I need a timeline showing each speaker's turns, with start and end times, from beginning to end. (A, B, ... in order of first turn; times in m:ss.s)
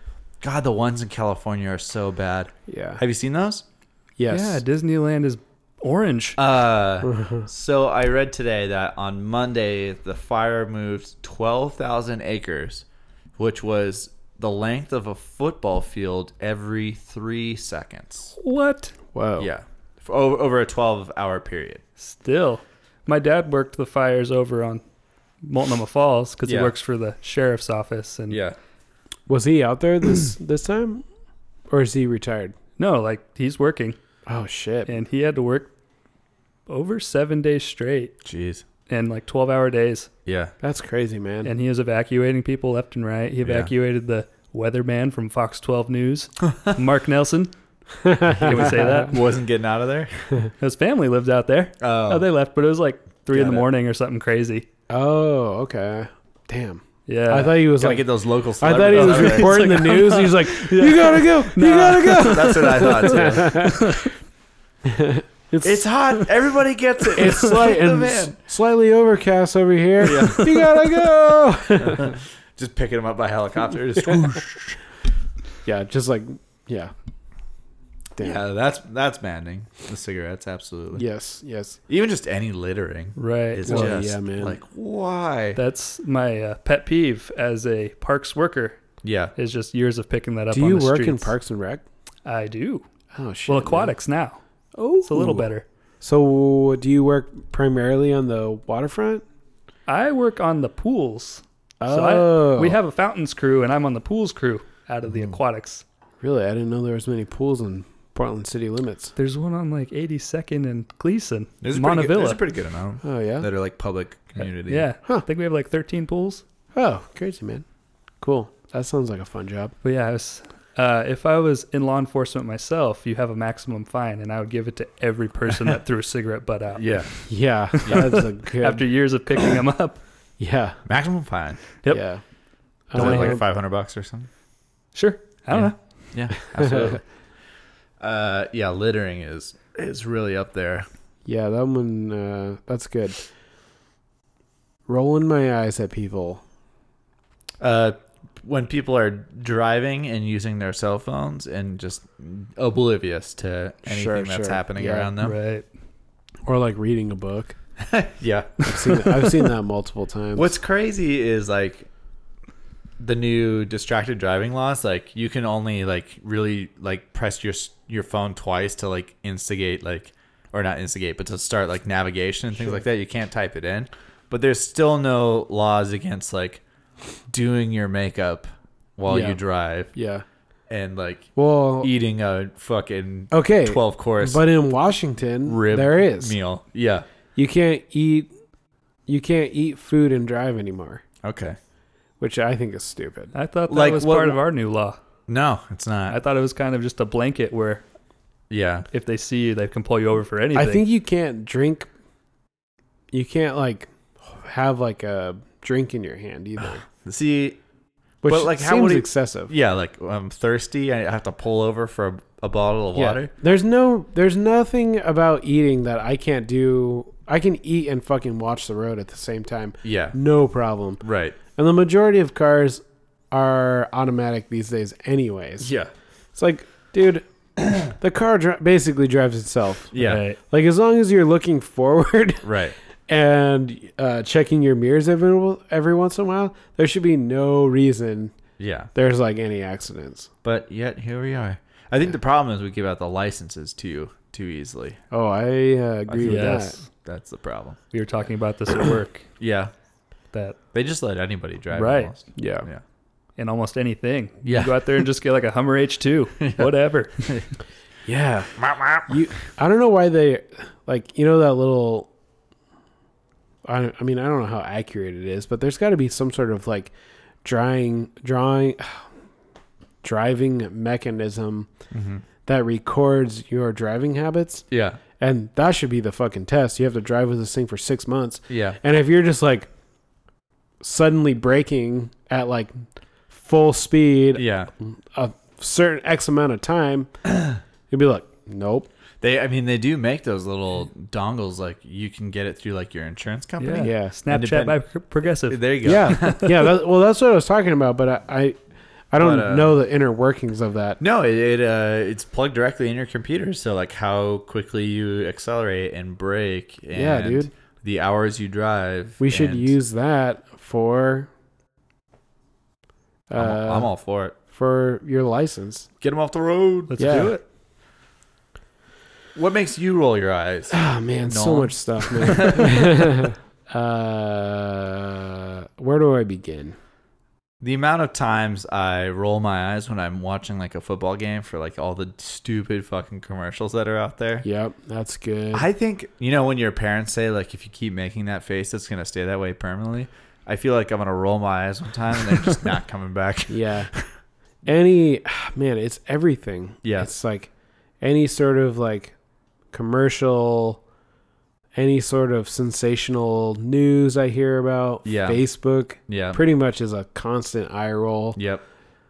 0:00.4-0:03.6 A
0:02.7-0:03.0 B
0:04.2-0:04.6 B
0:04.3-0:06.4 C
0:06.4-0:12.8 A
0:07.0-0:07.5 B
0:13.4-0:18.4 A
0:18.4-0:19.0 C
0:19.1-0:19.5 B
0:19.4-0:21.8 A
0:22.0-0:24.8 C
0:25.4-0:28.4 C
0:26.4-0:26.7 A
0:28.3-0:28.6 A
0:29.3-0:31.0 B
0:31.7-0:32.6 B
0:32.8-0:34.0 C
0:34.3-0:34.9 B
0:34.9-0:35.7 C
0:36.7-0:38.2 C
0:38.2-0:38.6 A
0:38.9-0:40.1 C
0:40.3-0:40.5 A
0:40.6-0:41.5 B
0:41.4-0:47.5 C
0:43.4-0:43.7 A
0:48.0-0:49.1 B
0:48.4-0:49.2 C
0:48.5-0:50.2 A
0:50.6-0:54.7 C
0:51.8-0:52.3 A
0:53.3-0:53.6 A
0:54.9-0:58.0 B
0:57.1-0:57.6 C
0:57.8-0:59.7 A
0:58.6-1:04.1 B
0:58.9-1:04.1 C
1:02.1-1:03.8 A
1:04.8-1:05.8 B
1:05.6-1:08.4 A
1:07.2-1:12.1 B
1:10.0-1:10.8 A
1:11.8-1:14.8 A
1:15.6-1:16.9 B
1:18.2-1:21.0 A
1:21.0-1:21.8 B
1:21.9-1:25.6 A
1:23.2-1:24.0 C
1:23.7-1:24.6 B
1:25.6-1:28.8 C
1:29.0-1:29.3 A
1:29.4-1:31.3 C
1:30.5-1:31.8 B
1:32.2-1:32.9 C
1:33.1-1:33.9 B
1:33.5-1:34.4 C
1:34.8-1:35.5 B
1:35.0-1:35.6 C
1:36.0-1:39.2 B
1:39.9-1:45.8 C
1:41.8-1:42.8 B
1:46.2-1:49.1 B
1:49.2-1:52.4 C
1:51.6-1:54.9 A
1:53.0-1:53.5 B
1:54.7-1:56.4 C
1:56.7-1:57.6 B
1:58.2-1:59.7 B
1:59.8-2:07.2 C
2:06.8-2:07.1 A
2:07.3-2:08.9 B
2:07.8-2:10.0 C
2:10.4-2:10.8 B
2:10.9-2:11.6 A
2:11.9-2:12.2 B
2:12.9-2:13.4 B
2:13.0-2:13.4 C
2:13.0-2:14.3 A
2:14.9-2:15.8 C
2:15.5-2:17.0 A
2:16.6-2:16.9 B
2:18.0-2:20.9 A
2:21.3-2:23.2 B
2:24.9-2:26.4 B
2:27.6-2:35.4 A
2:33.9-2:35.1 B
2:35.2-2:35.7 C
2:36.5-2:37.6 B
2:37.8-2:38.7 A
2:38.7-2:40.5 B
2:40.4-2:41.9 A
2:43.0-2:56.6 A
2:57.3-2:59.9 A
2:59.1-2:59.4 B
2:59.9-3:00.2 B
3:00.7-3:04.4 A
3:01.4-3:01.9 B
3:03.3-3:06.4 B
3:05.5-3:07.0 A
3:07.4-3:08.3 B
3:09.1-3:11.0 B
3:11.2-3:11.6 A
3:12.2-3:13.3 B
3:13.3-3:15.0 C
3:13.7-3:14.4 A
3:15.3-3:16.2 A
3:16.1-3:17.8 C
3:18.5-3:18.9 A
3:18.9-3:20.8 C
3:20.5-3:21.9 B
3:23.1-3:26.8 B
3:26.6-3:27.6 A
3:28.2-3:29.5 B
3:28.3-3:33.3 A
3:33.0-3:41.0 B
3:39.8-3:40.2 A
3:41.0-3:41.4 A
3:41.5-3:45.7 B
3:45.6-3:45.9 A
3:46.4-3:52.5 B
3:49.9-3:50.2 A
3:50.0-3:50.4 C
3:52.4-3:52.8 A
3:53.1-3:58.3 B
3:58.6-3:58.9 A
3:58.9-4:00.3 B
4:00.4-4:05.0 A
4:05.1-4:06.8 B
4:06.1-4:07.8 A
4:06.2-4:06.8 C
4:07.9-4:09.3 C
4:09.4-4:09.7 A
4:10.3-4:10.6 C
4:10.7-4:12.8 A
4:11.7-4:12.1 C
4:12.4-4:12.7 B
4:13.4-4:17.3 C
4:14.4-4:15.0 A
4:16.4-4:16.7 A
4:17.2-4:17.5 A
4:18.1-4:18.6 B
4:18.6-4:19.2 A
4:19.1-4:22.1 B
4:23.6-4:26.9 B
4:27.4-4:29.1 B
4:30.0-4:31.7 B
4:31.9-4:32.2 A
4:32.4-4:34.7 B
4:34.7-4:35.0 A
4:35.2-4:39.7 B
4:38.5-4:38.8 A
4:40.8-4:42.7 B
4:43.3-4:47.1 B
4:44.4-4:44.7 A
4:47.3-4:47.6 A
4:47.9-4:48.9 B
4:49.2-4:54.8 A
4:53.6-4:56.5 C
4:53.8-4:54.2 B
4:55.5-4:56.5 A
4:55.8-4:58.6 B
4:59.1-5:01.0 B
4:59.2-4:59.7 A
5:01.0-5:09.7 A
5:06.9-5:07.5 B
5:09.2-5:11.3 B
5:13.3-5:13.9 B
5:13.4-5:14.4 A
5:14.5-5:15.9 B
5:16.0-5:17.0 A
5:16.9-5:17.4 C
5:17.0-5:17.3 B
5:19.4-5:23.0 A
5:20.7-5:26.8 B
5:27.6-5:34.4 A
5:34.4-5:35.7 B
5:35.5-5:44.1 A
5:43.5-5:43.9 B
5:44.6-5:47.5 B
5:46.8-5:47.1 A
5:48.0-5:49.1 B
5:49.7-5:50.8 B
5:51.8-5:58.4 B
5:55.0-5:55.4 A
5:56.1-5:56.4 A
5:58.4-5:58.6 A